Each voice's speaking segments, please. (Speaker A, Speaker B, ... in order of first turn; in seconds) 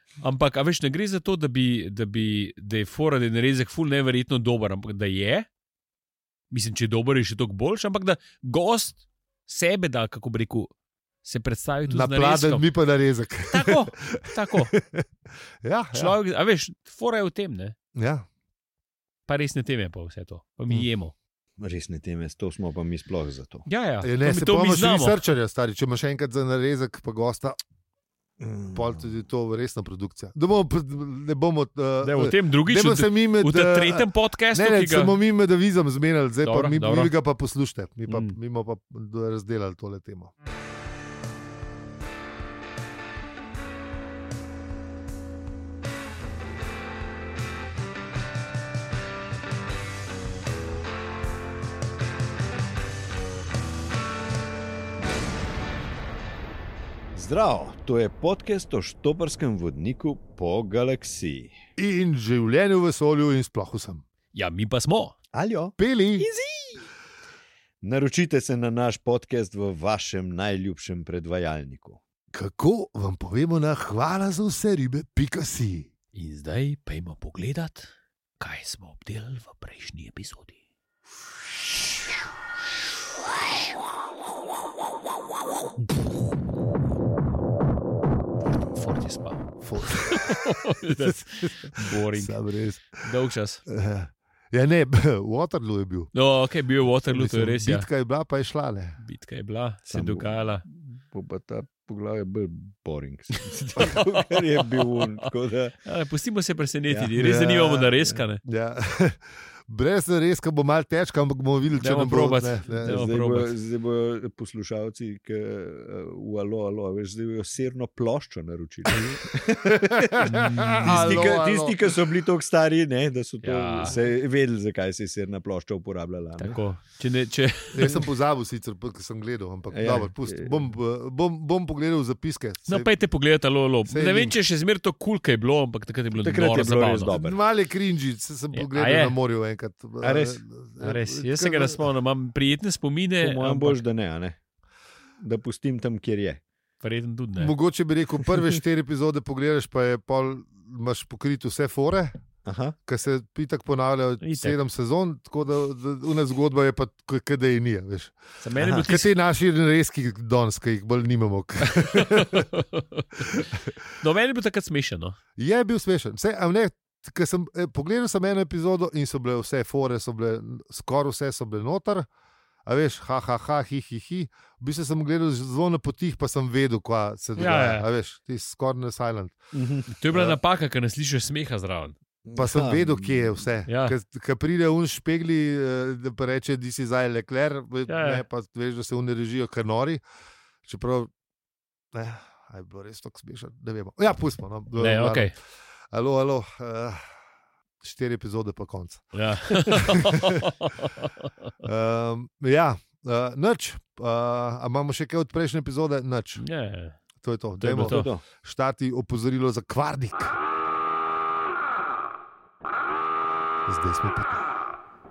Speaker A: 0.2-5.5, 6.5-10.7, 11.2-12.6, 13.5-14.7, 15.9-17.8, 19.3-21.1, 23.7-25.2, 32.0-35.2, 36.4-37.1, 38.1-38.4, 64.3-65.2, 76.1-77.9, 78.4-80.5, 88.6-92.4, 93.0-93.6, 96.1-97.9, 99.0-100.6, 103.3-105.3, 105.8-108.4, 111.8-113.5, 118.9-119.2, 120.2-121.3, 123.4-124.0, 126.4-128.0, 132.7-137.1, 138.5-139.2, 140.8-143.8, 146.8-147.5, 154.2-154.6, 158.4-159.1, 161.7-163.5, 164.0-165.2, 177.4-177.9, 179.9-182.0, 183.7-184.0, 187.9-188.2, 194.8-195.3, 199.1-201.3, 206.4-207.0, 207.6-208.1
Speaker B: 11.9-15.1, 15.6-16.1, 17.9-18.3, 24.0-27.6, 28.7-40.3, 61.8-64.0, 65.8-66.3, 72.3-75.9, 89.6-90.5, 91.0-93.0, 93.7-96.1, 97.1-99.0, 107.2-113.0, 119.7-121.8, 127.7-132.9, 133.9-134.4, 137.1-141.8, 147.4-152.2, 152.9-162.5, 163.2-163.7, 165.4-172.1, 172.7-179.4, 182.3-190.0, 190.7-191.1, 191.9-195.3, 195.9-197.0, 197.8-200.5, 201.6-206.4, 207.2-210.4, 213.7-214.5
Speaker C: 21.6-23.7, 28.4-28.9, 57.1-61.6, 65.3-66.8, 67.8-72.0, 99.9-105.8, 106.9-107.2, 112.8-126.6, 129.7-130.6, 136.2-137.4, 140.0-140.4, 143.2-144.4, 145.2-146.4, 152.4-152.8, 179.5-180.0, 182.2-183.4, 207.8-208.2